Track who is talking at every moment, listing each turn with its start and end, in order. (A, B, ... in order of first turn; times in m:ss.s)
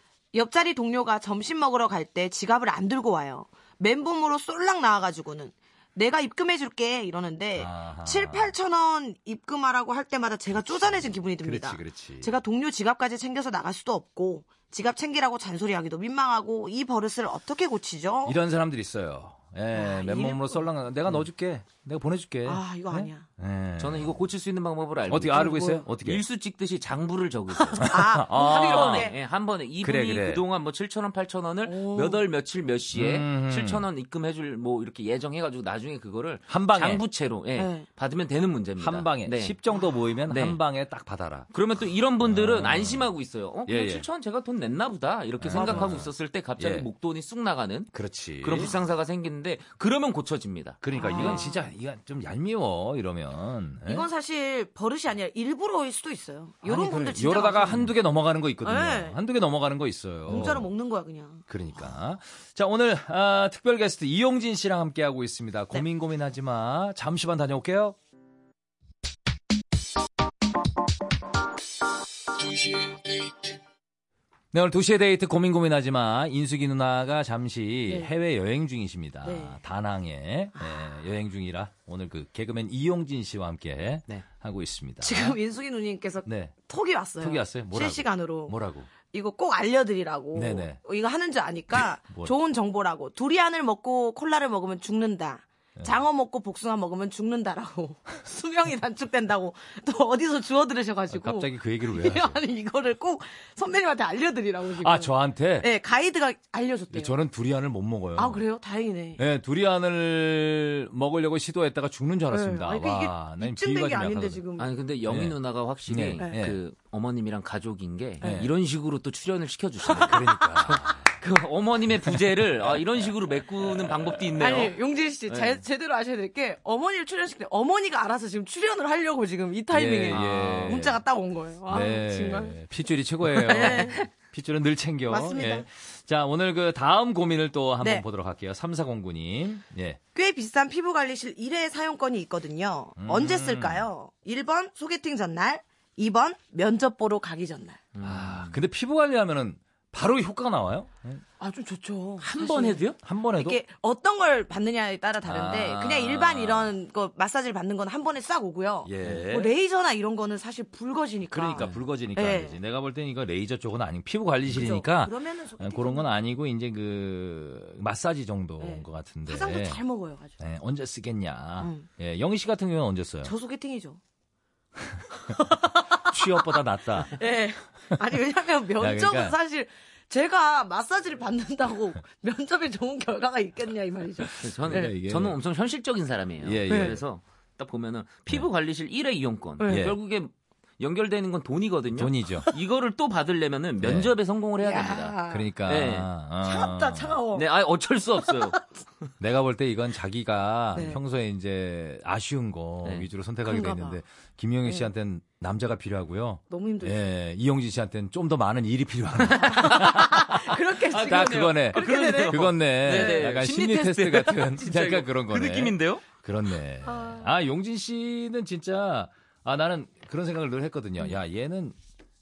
0:00.3-0:18.4 A
0:07.6-0:08.5 B
0:10.8-0:12.3 B
0:18.2-0:24.2 B
0:19.7-0:20.7 A
0:22.5-0:23.2 A
0:23.8-0:39.6 C
0:25.1-0:26.2 B
0:25.3-0:25.8 A
0:27.6-0:29.2 A
0:27.8-0:29.1 B
0:29.8-0:30.4 B
0:31.6-0:32.2 A
0:32.9-0:33.8 B
0:36.5-0:37.0 B
0:37.6-0:37.8 A
0:38.8-0:41.5 B
0:40.3-0:40.6 C
0:41.5-0:51.4 C
0:42.2-0:43.1 B
0:43.7-0:44.1 B
0:45.4-0:46.9 B
0:45.5-0:46.0 A
0:47.9-0:48.7 B
0:50.8-0:54.0 B
0:50.9-0:51.6 A
0:53.8-0:57.9 A
0:56.6-1:00.7 B
0:58.6-0:59.2 A
1:00.3-1:01.4 A
1:01.5-1:08.0 B
1:14.5-1:25.4 B
1:19.2-1:19.6 A
1:25.0-1:47.2 A
1:26.2-1:26.5 B
1:27.2-1:28.9 B
1:30.3-1:30.8 B
1:31.7-1:32.3 B
1:41.1-1:42.4 B
1:44.8-1:45.7 B
1:46.9-1:48.4 B
1:48.2-1:49.2 A
1:49.2-1:54.4 B
1:52.3-1:54.7 A
1:54.6-2:04.7 C
1:55.1-1:55.4 B
1:55.9-1:56.6 B
1:58.2-1:58.5 B
1:59.9-2:00.4 A
1:59.9-2:01.1 B
2:02.1-2:03.0 B
2:03.8-2:04.2 B
2:04.4-2:12.6 A
2:05.3-2:05.6 C
2:09.7-2:11.0 B
2:10.1-2:10.9 C
2:11.7-2:20.0 B
2:13.4-2:14.1 A
2:15.1-2:15.6 A
2:20.1-2:27.8 A
2:23.0-2:23.9 B
2:27.9-2:28.6 C
2:28.0-2:31.2 B
2:31.4-2:42.6 A
2:32.2-2:33.0 C
2:33.0-2:33.6 B
2:35.2-2:36.7 B
2:38.8-2:39.5 B
2:41.3-2:49.8 B
2:44.5-2:46.1 A
2:48.6-2:50.4 A
2:50.4-2:53.3 B
2:51.6-2:51.9 A
2:53.2-2:54.0 A
2:54.8-2:55.1 B
2:55.2-2:56.4 A
2:56.0-2:57.2 B
2:57.1-3:04.9 A
2:58.8-2:59.4 B
3:04.4-3:16.1 C
3:04.6-3:05.4 B
3:06.4-3:07.0 B
3:06.7-3:07.0 A
3:09.6-3:09.9 A
3:09.7-3:10.0 B
3:11.9-3:12.5 B
3:13.8-3:14.1 B
3:14.6-3:15.5 A
3:15.3-3:17.2 B
3:16.4-3:17.4 A
3:17.3-3:18.6 C
3:18.3-3:18.6 A
3:19.2-3:41.8 B
3:20.7-3:21.0 A
3:23.4-3:24.0 A
3:24.6-3:24.9 A
3:26.5-3:27.0 A
3:29.3-3:30.0 C
3:29.4-3:33.2 A
3:30.9-3:36.1 C
3:36.8-3:37.3 A